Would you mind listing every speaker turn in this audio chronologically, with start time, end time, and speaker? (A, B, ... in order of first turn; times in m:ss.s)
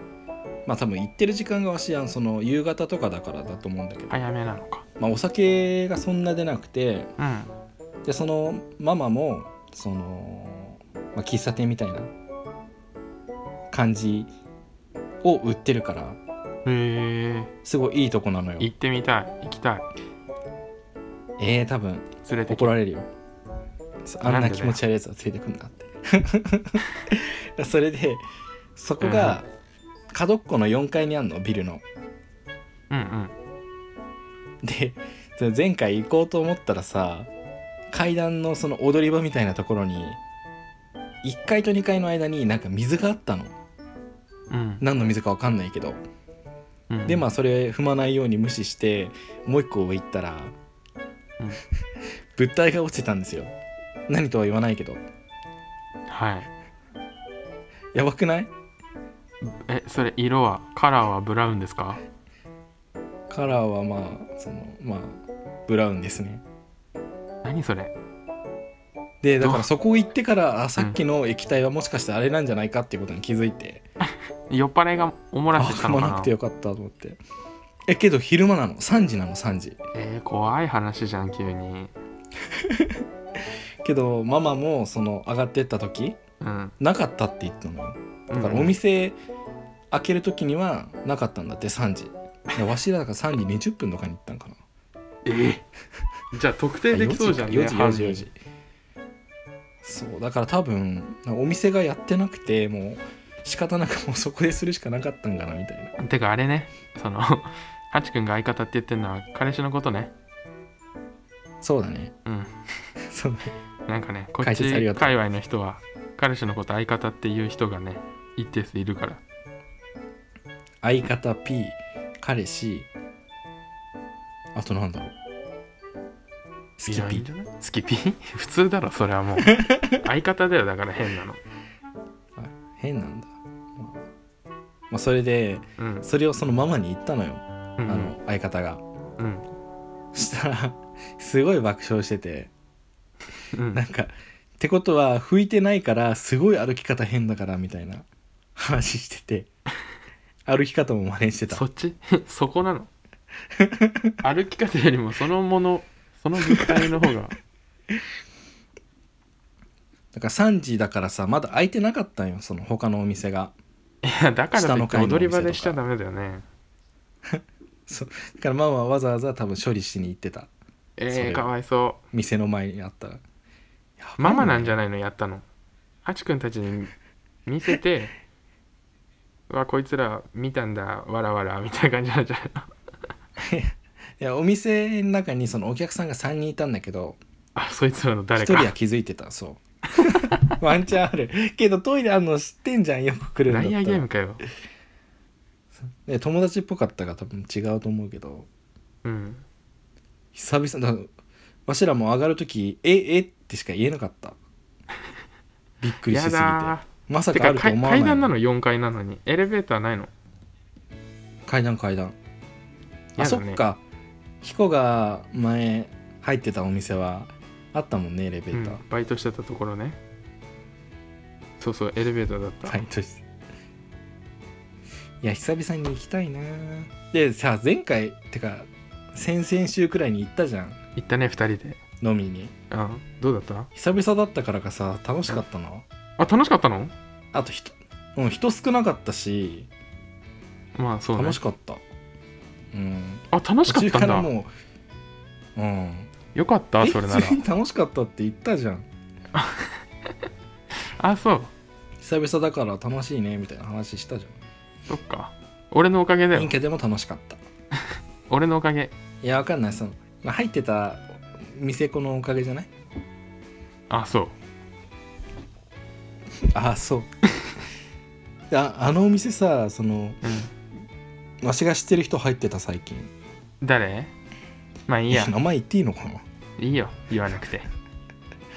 0:00.6-0:04.2 A
0:04.1-0:04.8 B
0:05.0-0:07.1 A
0:07.2-0:07.5 B
0:08.0-0:12.1 A
0:13.7-0:14.3 A
0:15.2-0:16.2 A
0:16.6-0:17.5 B
0:17.6-0:18.7 A
0:18.6-0:19.9 B
0:21.4-0:23.1 A
0:22.2-0:22.7 B
0:24.0-0:28.2 A
0:24.2-0:24.8 B
0:28.8-0:29.5 A
0:29.0-0:29.4 B
0:30.1-0:31.8 A
0:32.9-0:33.3 B
0:34.6-0:37.3 A
0:37.9-0:40.2 A
0:41.2-0:43.5 A
0:44.5-0:44.8 B
0:44.8-0:46.0 A
0:46.9-0:47.2 B
0:47.1-0:50.5 A
0:52.4-0:53.5 A
0:54.1-0:55.0 A
0:56.1-0:56.5 B
0:57.9-0:58.5 A
0:59.4-1:02.0 B
1:03.3-1:06.4 A
1:07.4-1:07.9 B
1:09.2-1:13.8 A
1:09.4-1:09.7 B
1:14.5-1:16.3 B
1:15.6-1:17.2 A
1:17.9-1:19.8 A
1:19.9-1:21.9 B
1:22.4-1:23.0 A
1:23.8-1:26.2 A
1:26.4-1:26.7 B
1:26.8-1:29.2 A
1:28.3-1:28.8 B
1:29.9-1:34.6 A
1:35.2-1:35.6 B
1:36.3-1:38.3 B
1:36.9-1:38.3 A
1:39.8-1:45.9 A
1:46.0-1:50.1 B
1:51.6-1:52.1 A
1:52.2-1:52.5 B
1:53.0-1:53.5 A
1:53.9-1:59.2 B
1:54.4-1:55.2 A
2:00.8-2:02.9 A
2:04.5-2:05.1 A
2:06.8-2:07.3 A
2:06.9-2:11.4 B
2:09.5-2:10.0 A
2:12.4-2:14.0 A
2:14.9-2:18.8 A
2:15.8-2:16.0 B
2:17.8-2:18.1 B
2:19.2-2:19.5 B
2:20.1-2:22.5 A
2:23.5-2:23.8 B
2:23.7-2:29.5 A
2:30.5-2:31.6 A
2:31.5-2:32.9 B
2:33.5-2:34.1 A
2:34.2-2:37.4 B
2:36.4-2:36.9 A
2:40.1-2:43.5 A
2:44.0-2:46.4 B
2:44.5-2:45.8 A
2:47.2-2:50.5 A
2:51.0-2:52.0 B
2:51.1-2:51.4 A
2:52.1-2:53.2 A
2:54.0-2:54.8 A
2:54.2-2:55.4 B
2:56.0-2:56.9 B
2:57.4-2:58.1 B
2:59.5-3:02.7 B
3:03.4-3:07.2 A
3:07.5-3:08.7 B
3:08.4-3:14.0 A
3:10.0-3:10.5 B
3:13.5-3:14.4 B
3:15.9-3:18.5 A
3:19.0-3:19.4 B
3:20.3-3:21.1 A
3:21.7-3:24.4 A
3:25.8-3:28.3 A
3:26.1-3:30.1 B
3:31.4-3:32.2 A
3:33.2-3:33.8 A
3:33.2-3:33.6 B
3:34.4-3:38.8 A
3:38.5-3:40.0 B
3:41.6-3:42.8 B
3:42.6-3:43.2 A
3:45.2-3:50.8 A
3:51.0-3:51.8 B
3:52.0-3:52.5 A
3:52.7-3:53.7 B
3:53.7-3:55.8 A
3:56.2-3:56.9 B
3:57.3-3:59.7 A
4:00.8-4:01.4 B
4:01.2-4:01.8 A
4:02.7-4:04.5 A
4:03.3-4:04.3 B
4:05.6-4:06.1 A
4:06.3-4:07.4 B
4:06.8-4:08.8 A
4:09.3-4:09.7 B
4:11.0-4:11.5 B
4:12.0-4:14.4 A
4:14.9-4:16.5 B
4:16.3-4:17.4 A
4:18.3-4:18.9 B
4:19.2-4:22.7 A
4:23.9-4:24.4 B
4:26.5-4:27.1 A
4:28.5-4:30.2 A
4:30.2-4:30.5 B
4:31.4-4:33.1 A
4:33.6-4:34.1 B
4:34.9-4:35.4 B
4:35.1-4:36.2 A
4:36.6-4:37.7 B